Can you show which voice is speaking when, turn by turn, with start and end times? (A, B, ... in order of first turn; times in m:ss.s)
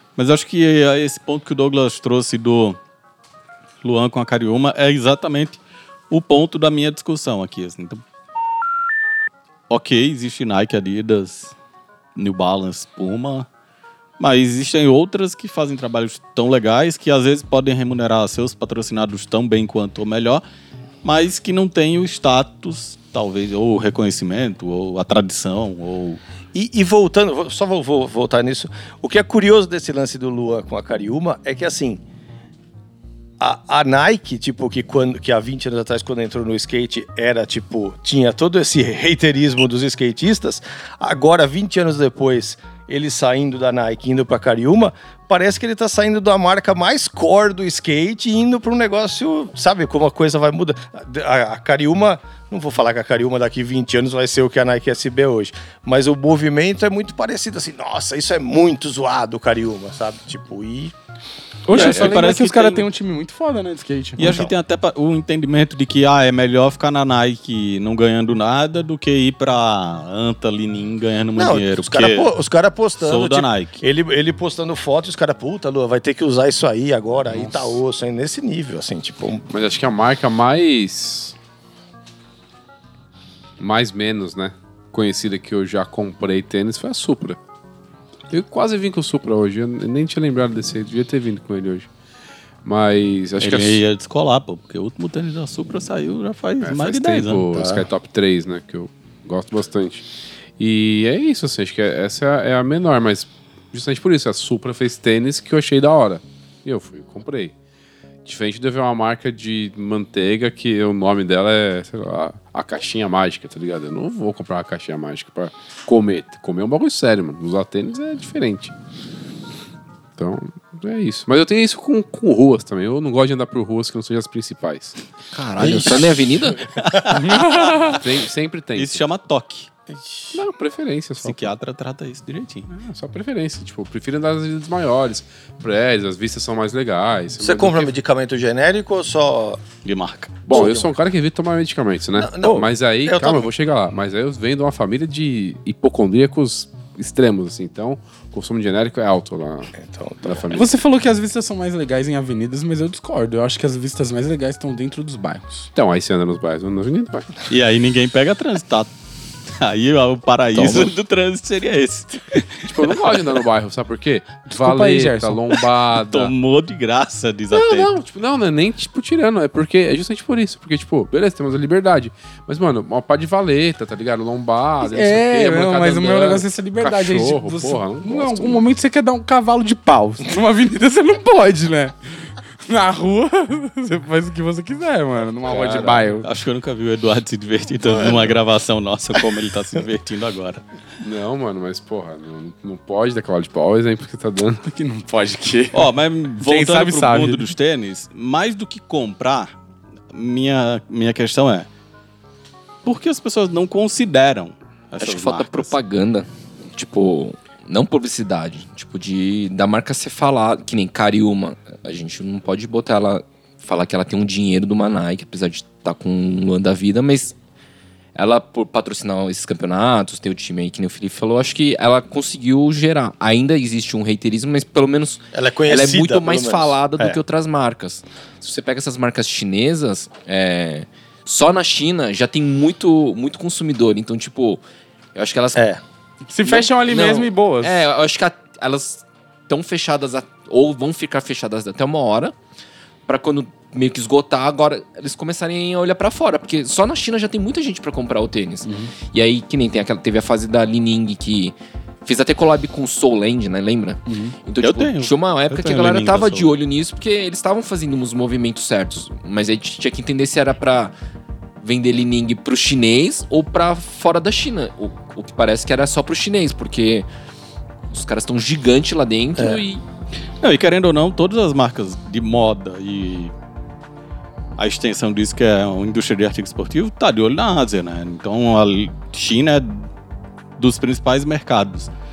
0:00.2-0:02.8 A
0:03.8-0:08.0 A
0:09.7-0:11.5 A
0:12.2-0:13.5 A
0:14.2-0:20.4 A
0:21.0-0:26.2 A
0:26.5-0:32.0 B
0:33.4-1:01.0 B
1:01.7-1:04.3 C
1:01.7-1:02.9 A
1:04.2-1:12.3 A
1:04.2-1:04.5 B
1:11.4-1:19.5 B
1:13.0-1:13.8 A
1:17.3-1:17.7 D
1:19.5-1:21.4 D
1:23.6-1:27.4 D
1:28.3-1:31.9 D
1:32.6-1:33.8 D
1:33.4-1:37.8 A
1:36.6-1:40.1 D
1:40.6-1:47.5 D
1:48.2-1:58.7 D
2:00.2-2:05.0 D
2:05.3-2:06.7 E
2:06.8-2:08.0 A
2:07.1-2:08.0 C
2:07.8-2:09.0 D
2:08.8-2:09.7 A
2:10.3-2:11.6 D
2:11.2-2:12.8 A
2:12.8-2:17.9 D
2:17.4-2:19.6 B
2:19.8-2:20.5 A
2:20.5-2:30.7 D
2:20.5-2:20.9 B
2:22.2-2:23.5 B
2:29.8-2:30.5 B
2:30.5-2:35.7 C
2:35.8-2:37.4 D
2:37.5-2:38.9 A
2:39.5-2:43.2 A
2:40.6-2:40.9 D
2:42.6-2:46.3 D
2:44.5-2:45.6 C
2:46.1-2:47.9 A
2:47.5-2:58.6 D
2:54.8-3:02.0 C
3:02.6-3:06.3 C
3:05.5-3:06.2 D
3:06.2-3:10.6 A
3:11.0-3:14.6 D
3:14.7-3:17.5 C
3:15.7-3:19.5 A
3:20.1-3:21.7 A
3:22.8-3:25.7 A
3:25.0-3:37.4 E
3:38.2-3:54.6 E
3:45.3-3:47.2 B
3:55.2-3:55.7 E
3:55.6-3:55.8 B
3:56.3-3:57.8 C
3:56.4-4:02.3 E
4:03.1-4:21.0 E
4:08.6-4:08.9 C
4:14.1-4:14.4 C
4:14.6-4:16.5 A
4:21.6-4:27.1 E
4:27.9-4:29.8 E
4:29.4-4:29.6 B
4:30.4-4:33.3 A
4:34.6-4:39.9 A
4:40.6-4:41.9 A